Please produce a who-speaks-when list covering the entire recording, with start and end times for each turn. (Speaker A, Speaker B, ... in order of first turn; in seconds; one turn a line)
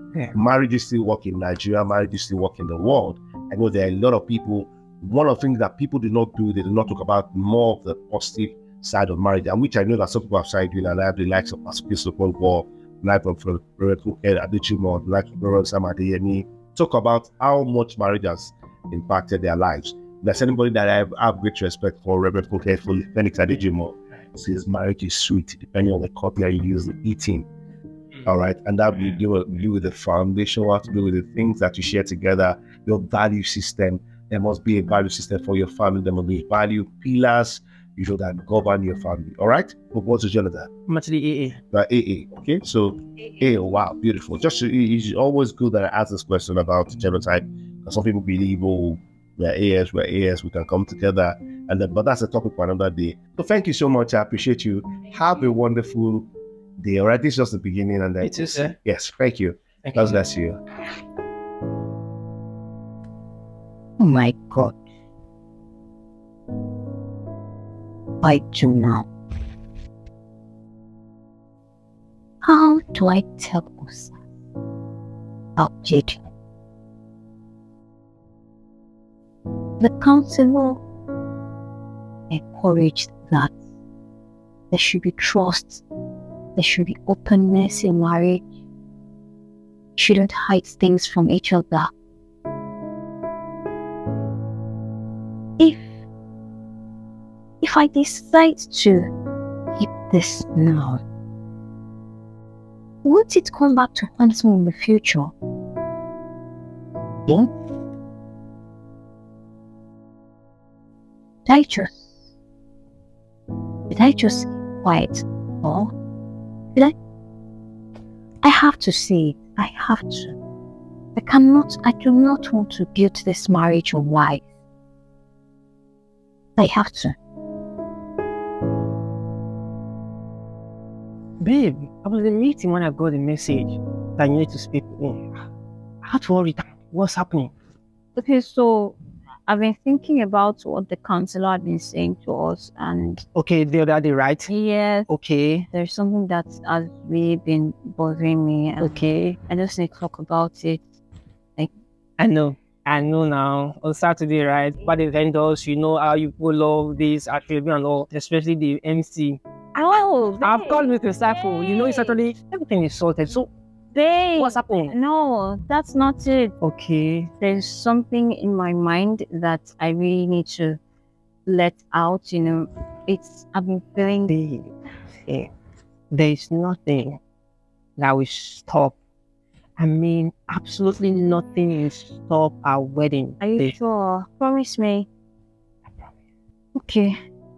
Speaker A: 0.3-27.5
Speaker A: 28.2-40.7
Speaker B: 40.9-41.6
Speaker A: 41.7-56.3
Speaker A: 56.8-60.6
Speaker B: 58.2-58.8
Speaker B: 59.8-60.2
Speaker C: 64.0-64.8
Speaker C: 68.2-69.0
Speaker C: 72.4-74.1
Speaker C: 75.6-76.2
Speaker C: 79.8-80.8
Speaker C: 82.3-83.5
Speaker C: 84.7-85.8
Speaker C: 86.5-88.4
Speaker C: 90.0-91.9
Speaker C: 95.6-95.8
Speaker C: 97.6-99.1
Speaker C: 99.8-101.0
Speaker C: 103.0-105.3
Speaker C: 111.5-112.0
Speaker C: 113.9-115.9
Speaker C: 118.4-120.3
Speaker C: 121.2-124.4
Speaker C: 126.6-127.2
Speaker B: 131.4-135.2
Speaker B: 136.0-137.5
Speaker C: 138.2-143.2
Speaker B: 143.3-144.5
Speaker C: 144.5-145.1
Speaker B: 145.1-145.7
Speaker C: 145.7-148.9
Speaker B: 148.8-149.4
Speaker C: 149.5-150.8
Speaker B: 152.2-159.4
Speaker C: 159.7-162.2
Speaker B: 160.4-163.5
Speaker C: 163.9-166.5
Speaker B: 164.3-164.9
Speaker B: 166.6-167.3
Speaker C: 167.4-170.8
Speaker C: 171.5-174.3
Speaker B: 174.3-174.7
Speaker B: 176.1-177.2
Speaker B: 178.0-178.9
Speaker B: 179.8-183.8
Speaker C: 183.4-185.1
Speaker C: 186.8-187.2